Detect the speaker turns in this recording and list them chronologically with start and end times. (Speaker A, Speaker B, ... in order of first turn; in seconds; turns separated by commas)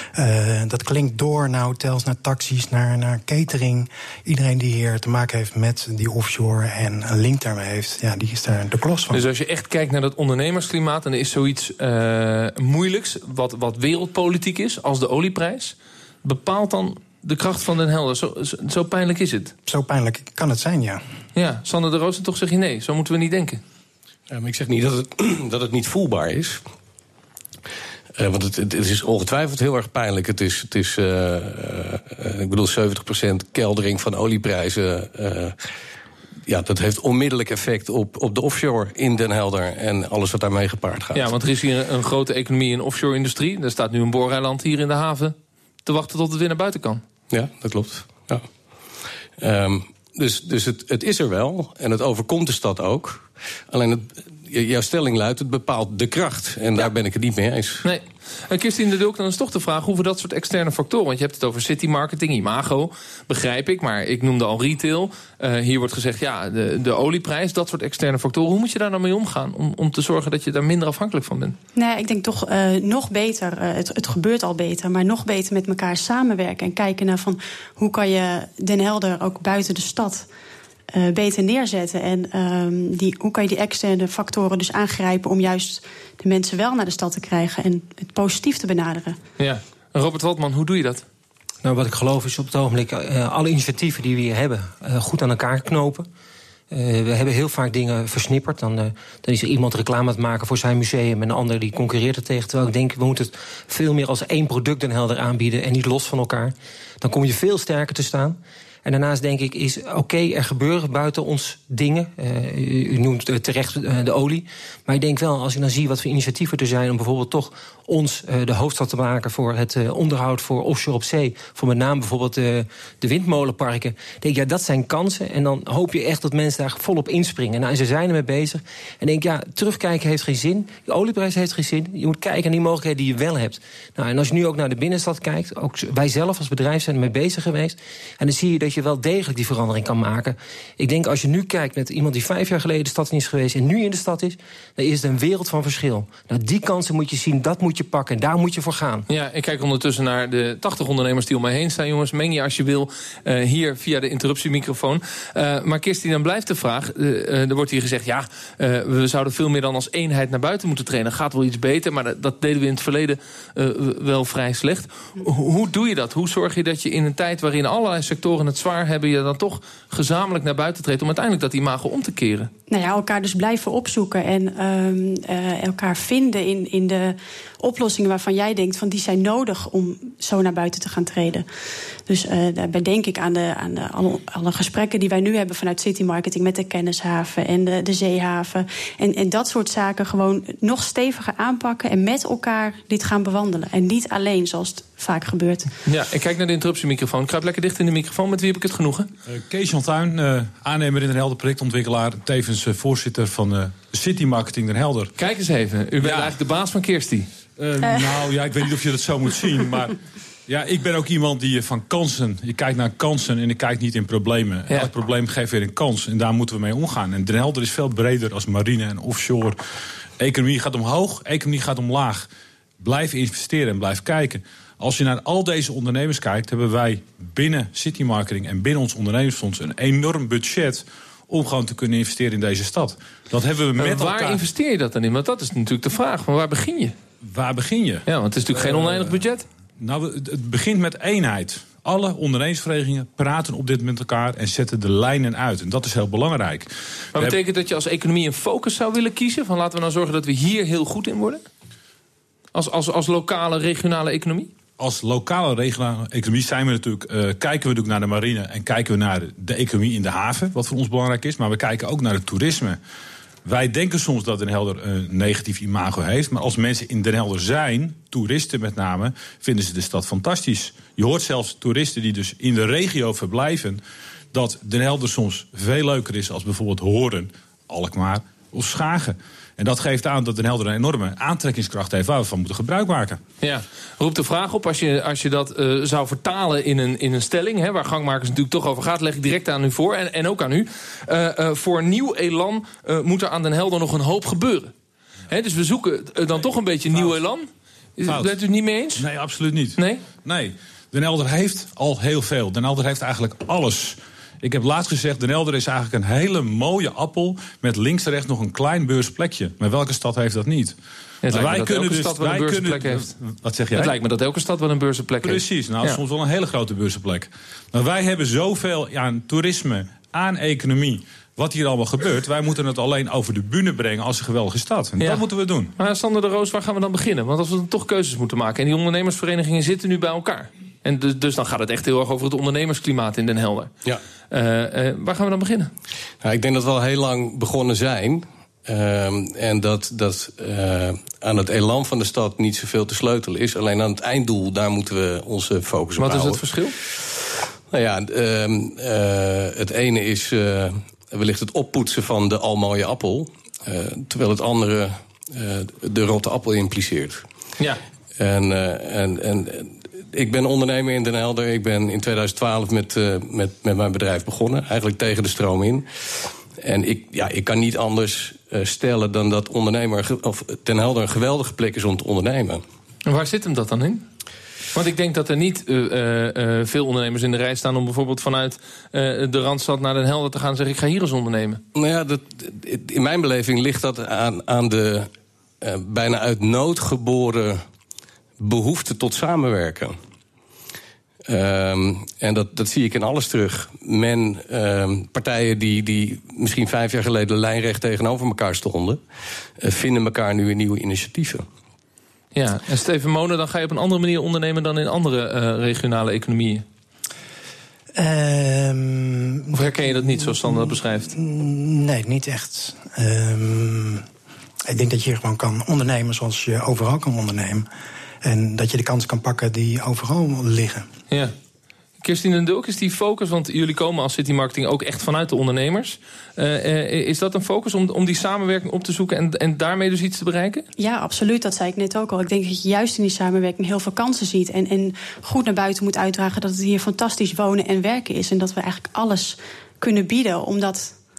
Speaker A: 0.2-9.2, Speaker B: 9.1-19.5, Speaker A: 19.7-21.0, Speaker B: 21.4-23.6, Speaker C: 24.3-26.6, Speaker C: 28.2-35.7, Speaker C: 36.5-41.4, Speaker B: 41.1-47.0, Speaker C: 47.3-48.5, Speaker C: 49.4-57.9, Speaker B: 57.8-71.6, Speaker D: 71.8-80.3, Speaker D: 80.9-89.2, Speaker B: 89.4-91.0, Speaker E: 91.6-96.1, Speaker E: 96.7-149.1, Speaker B: 149.1-172.5, Speaker D: 172.7-181.5, Speaker D: 182.1-195.7, Speaker B: 195.9-199.1, Speaker F: 199.3-205.1, Speaker B: 205.2-207.3, Speaker F: 206.0-206.3, Speaker F: 207.6-219.6, Speaker F: 220.2-222.3, Speaker F: 222.8-234.4, Speaker B: 233.8-236.9, Speaker F: 237.2-238.1, Speaker B: 238.1-239.5, Speaker F: 238.6-239.2, Speaker F: 239.8-247.4, Speaker B: 247.2-251.5, Speaker B: 252.5-254.5, Speaker F: 254.8-262.8, Speaker F: 263.4-273.8, Speaker F: 274.3-283.2, Speaker B: 283.4-294.7, Speaker B: 295.3-299.1, Speaker F: 298.1-298.4, Speaker F: 299.0-310.8, Speaker B: 299.8-300.1, Speaker B: 311.2-313.1, Speaker F: 311.3-313.9, Speaker B: 313.7-316.0, Speaker F: 315.2-325.7, Speaker B: 325.0-325.2, Speaker B: 325.8-333.7, Speaker B: 334.3-335.7, Speaker C: 336.2-347.0, Speaker B: 346.0-346.8, Speaker C: 347.7-357.2, Speaker C: 358.2-372.6, Speaker B: 373.1-374.1, Speaker B: 374.7-381.6, Speaker C: 381.7-387.6, Speaker C: 388.4-390.0, Speaker C: 391.3-399.0, Speaker C: 399.6-401.5, Speaker B: 402.3-406.6, Speaker A: 407.9-414.1, Speaker B: 409.5-411.1, Speaker A: 414.7-417.7, Speaker A: 418.2-420.9, Speaker B: 422.0-430.7, Speaker D: 430.8-440.9